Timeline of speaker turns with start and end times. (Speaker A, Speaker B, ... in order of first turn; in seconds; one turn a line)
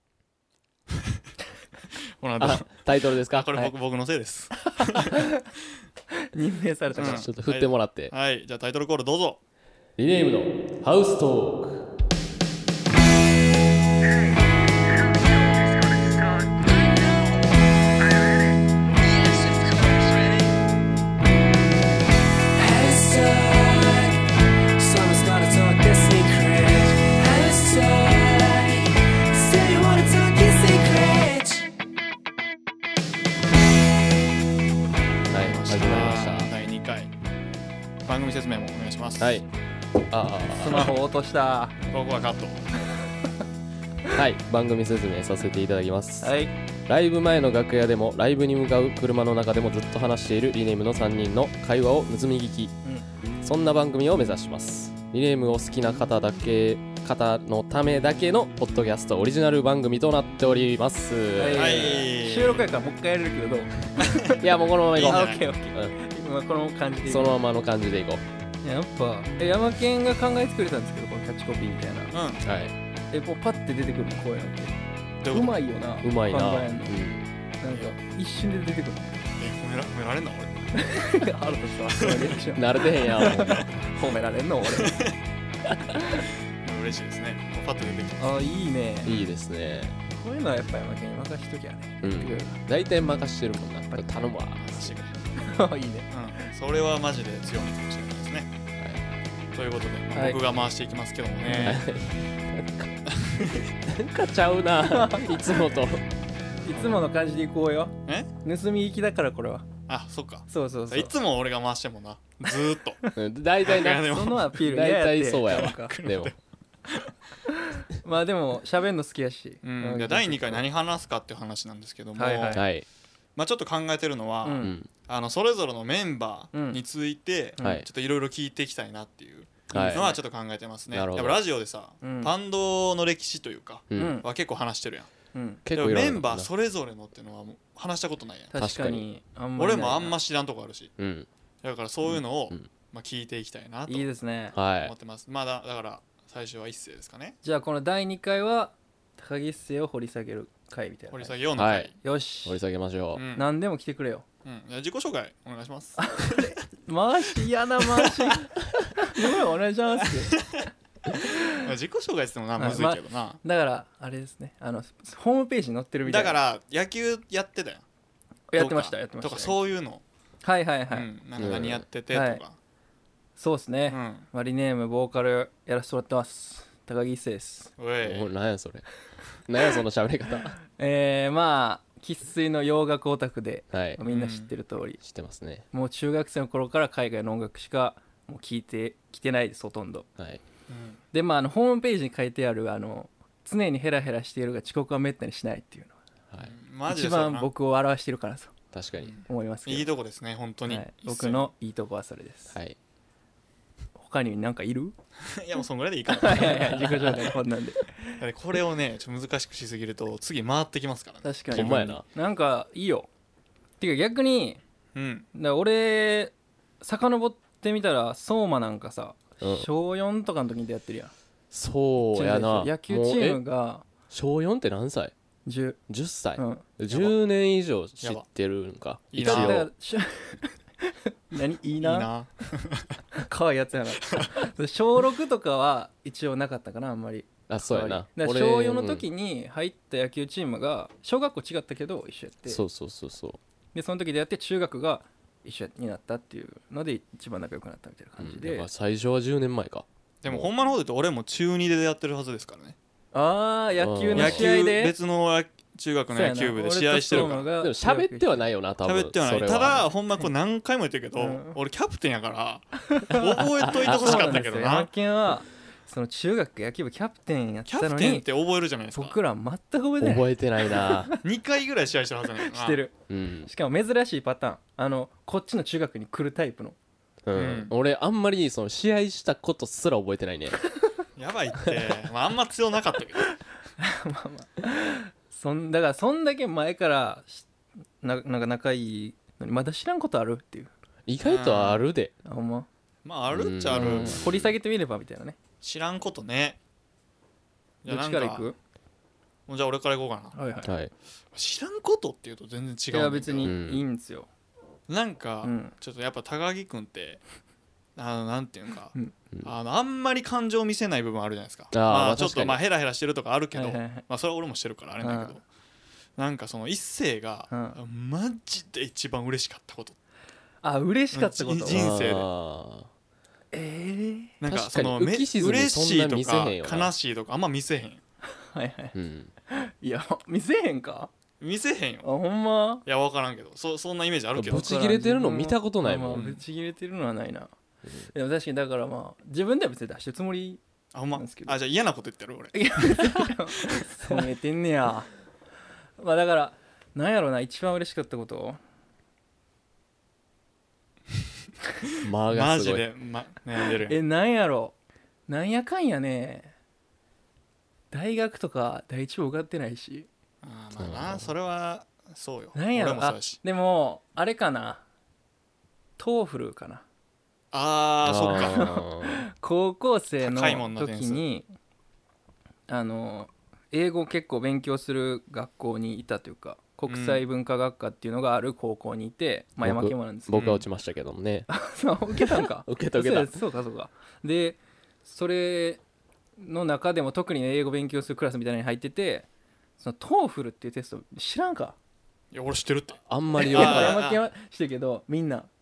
Speaker A: 2.2-5.2
Speaker B: 2.4-3.5
Speaker C: 4.6-5.4
Speaker C: 6.2-7.3
Speaker A: 6.9-9.4
Speaker B: 7.0-8.1
Speaker B: 10.0-11.9
Speaker C: 14.0-17.4
Speaker C: 18.0-20.6
Speaker C: 22.6-24.2
Speaker C: 24.8-31.6
Speaker B: 35.3-36.5
Speaker A: 35.4-37.1
Speaker A: 38.1-39.3
Speaker B: 39.2-39.5
Speaker B: 40.1-40.9
Speaker C: 40.6-41.8
Speaker A: 41.9-42.6
Speaker B: 44.1-46.3
Speaker C: 46.2-46.5
Speaker B: 46.9-52.8
Speaker B: 53.4-61.7
Speaker C: 61.4-64.4
Speaker A: 61.5-62.7
Speaker A: 64.0-65.4
Speaker B: 64.3-65.9
Speaker C: 65.0-67.4
Speaker B: 67.1-68.2
Speaker C: 68.6-72.1
Speaker A: 72.1-72.4
Speaker B: 72.4-72.7
Speaker C: 73.1-74.8
Speaker A: 75.2-75.6
Speaker C: 75.3-77.0
Speaker B: 76.0-77.2
Speaker C: 77.6-79.1
Speaker A: 79.4-80.8
Speaker C: 80.7-85.0
Speaker A: 82.0-82.3
Speaker B: 82.6-83.7
Speaker A: 83.2-83.6
Speaker A: 84.7-85.2
Speaker B: 85.7-85.9
Speaker C: 85.9-86.2
Speaker A: 86.6-88.4
Speaker C: 88.2-89.1
Speaker A: 89.0-89.3
Speaker B: 89.0-90.0
Speaker C: 90.1-92.6
Speaker B: 92.0-94.9
Speaker A: 94.6-95.2
Speaker C: 95.4-96.4
Speaker A: 96.1-98.5
Speaker A: 99.5-101.8
Speaker C: 100.1-100.4
Speaker C: 101.4-101.8
Speaker B: 101.6-106.0
Speaker A: 103.1-103.6
Speaker C: 104.9-105.6
Speaker C: 106.7-109.7
Speaker A: 106.8-107.0
Speaker A: 109.9-113.0
Speaker C: 110.5-111.1
Speaker B: 113.1-116.3
Speaker A: 113.6-114.6
Speaker C: 114.0-115.9
Speaker A: 115.5-117.1
Speaker C: 117.5-120.6
Speaker A: 119.6-122.6
Speaker C: 122.2-122.6
Speaker B: 122.5-122.8
Speaker A: 123.4-135.1
Speaker C: 124.4-124.8
Speaker B: 124.6-124.9
Speaker C: 126.5-126.8
Speaker B: 129.7-130.2
Speaker B: 130.9-131.4
Speaker C: 132.0-132.3
Speaker B: 133.9-134.2
Speaker C: 133.9-134.2
Speaker C: 135.3-135.6
Speaker B: 135.6-136.5
Speaker A: 135.7-138.6
Speaker C: 138.5-140.2
Speaker B: 138.6-139.1
Speaker A: 139.6-140.9
Speaker B: 141.0-141.3
Speaker A: 141.6-144.1
Speaker B: 142.1-142.7
Speaker C: 143.9-144.6
Speaker B: 144.5-144.9
Speaker A: 144.8-147.4
Speaker C: 147.4-151.4
Speaker A: 151.1-151.9
Speaker B: 151.6-151.9
Speaker C: 152.0-152.6
Speaker B: 152.4-153.2
Speaker A: 153.1-153.5
Speaker C: 153.3-154.2
Speaker A: 154.4-156.6
Speaker C: 156.0-160.4
Speaker A: 158.0-158.3
Speaker A: 160.3-160.6
Speaker C: 161.1-161.7
Speaker A: 161.4-163.4
Speaker C: 162.6-166.4
Speaker A: 166.1-167.8
Speaker C: 168.5-169.6
Speaker A: 168.6-170.0
Speaker C: 170.4-171.1
Speaker A: 170.9-172.6
Speaker B: 171.4-171.9
Speaker C: 172.1-172.4
Speaker C: 173.4-177.7
Speaker A: 173.9-174.3
Speaker A: 177.8-178.3
Speaker B: 178.0-178.9
Speaker B: 179.4-180.6
Speaker C: 180.8-185.0
Speaker B: 183.7-184.0
Speaker A: 184.1-184.5
Speaker B: 185.0-185.6
Speaker C: 185.7-190.1
Speaker A: 190.7-191.0
Speaker C: 191.1-195.9
Speaker A: 196.4-197.5
Speaker C: 196.9-198.5
Speaker B: 198.7-199.1
Speaker A: 199.0-201.5
Speaker C: 199.3-199.9
Speaker C: 200.7-202.6
Speaker B: 202.5-202.8
Speaker C: 203.9-204.9
Speaker A: 205.2-207.3
Speaker C: 206.1-208.2
Speaker B: 206.7-207.1
Speaker A: 208.2-211.9
Speaker C: 211.2-213.1
Speaker B: 211.5-212.0
Speaker C: 213.8-214.6
Speaker A: 214.9-215.3
Speaker C: 215.3-221.1
Speaker B: 219.4-219.7
Speaker B: 221.5-223.4
Speaker C: 222.1-223.8
Speaker B: 224.1-225.1
Speaker C: 225.4-225.8
Speaker B: 225.9-229.7
Speaker C: 226.4-226.6
Speaker A: 229.1-229.6
Speaker C: 229.2-232.1
Speaker A: 231.8-232.9
Speaker C: 233.1-242.6
Speaker A: 234.0-234.4
Speaker B: 237.5-239.1
Speaker B: 242.5-243.4
Speaker C: 243.8-248.7
Speaker B: 248.2-250.5
Speaker A: 250.2-252.8
Speaker C: 253.1-254.9
Speaker B: 253.8-254.6
Speaker A: 254.1-257.5
Speaker C: 256.1-258.4
Speaker B: 257.1-259.9
Speaker A: 258.8-264.9
Speaker C: 261.1-261.6
Speaker C: 262.8-268.2
Speaker B: 263.6-264.3
Speaker A: 267.7-269.1
Speaker C: 268.9-271.2
Speaker B: 270.0-271.1
Speaker A: 271.2-272.8
Speaker C: 272.4-276.8
Speaker B: 273.1-273.5
Speaker B: 277.2-280.6
Speaker A: 277.3-277.7
Speaker A: 281.2-283.3
Speaker C: 283.8-287.5
Speaker C: 288.0-290.7
Speaker B: 291.1-292.1
Speaker A: 291.2-291.8
Speaker C: 292.2-292.7
Speaker A: 293.1-294.2
Speaker B: 293.3-294.5
Speaker C: 293.7-295.4
Speaker A: 295.6-296.6
Speaker A: 297.8-298.5
Speaker C: 297.9-298.6
Speaker A: 299.5-300.3
Speaker C: 300.3-300.7
Speaker B: 300.6-300.9
Speaker A: 301.3-303.5
Speaker C: 302.9-304.3
Speaker B: 303.4-303.8
Speaker A: 304.9-307.2
Speaker C: 305.4-305.7
Speaker A: 307.9-315.4
Speaker B: 311.7-312.6
Speaker C: 313.5-314.0
Speaker C: 315.0-315.4
Speaker A: 316.2-320.0
Speaker C: 317.5-317.8
Speaker C: 320.6-321.9
Speaker A: 321.1-322.3
Speaker B: 321.7-322.9
Speaker C: 323.5-324.4
Speaker A: 324.4-328.0
Speaker B: 324.5-326.9
Speaker C: 328.4-328.9
Speaker B: 328.9-329.3
Speaker C: 329.5-331.1
Speaker A: 331.4-332.1
Speaker C: 332.0-332.8
Speaker A: 332.9-334.7
Speaker B: 334.3-336.2
Speaker C: 334.4-337.5
Speaker A: 336.1-336.4
Speaker C: 338.1-340.6
Speaker A: 340.9-344.2
Speaker C: 341.2-341.6
Speaker C: 342.5-345.1
Speaker C: 346.0-348.6
Speaker B: 352.0-352.8
Speaker A: 352.3-354.0
Speaker C: 353.9-354.7
Speaker C: 355.3-356.5
Speaker C: 357.9-360.1
Speaker A: 360.4-363.4
Speaker B: 360.8-361.3
Speaker C: 362.6-364.8
Speaker C: 366.0-366.8
Speaker A: 367.5-368.7
Speaker B: 368.0-369.2
Speaker C: 368.3-371.5
Speaker A: 370.2-371.2
Speaker C: 372.7-380.4
Speaker A: 376.9-377.2
Speaker B: 379.6-381.5
Speaker A: 380.3-380.7
Speaker C: 381.5-385.8
Speaker B: 382.1-383.4
Speaker C: 386.4-389.3
Speaker C: 389.8-391.8
Speaker A: 392.3-394.2
Speaker B: 393.1-394.0
Speaker C: 393.4-395.5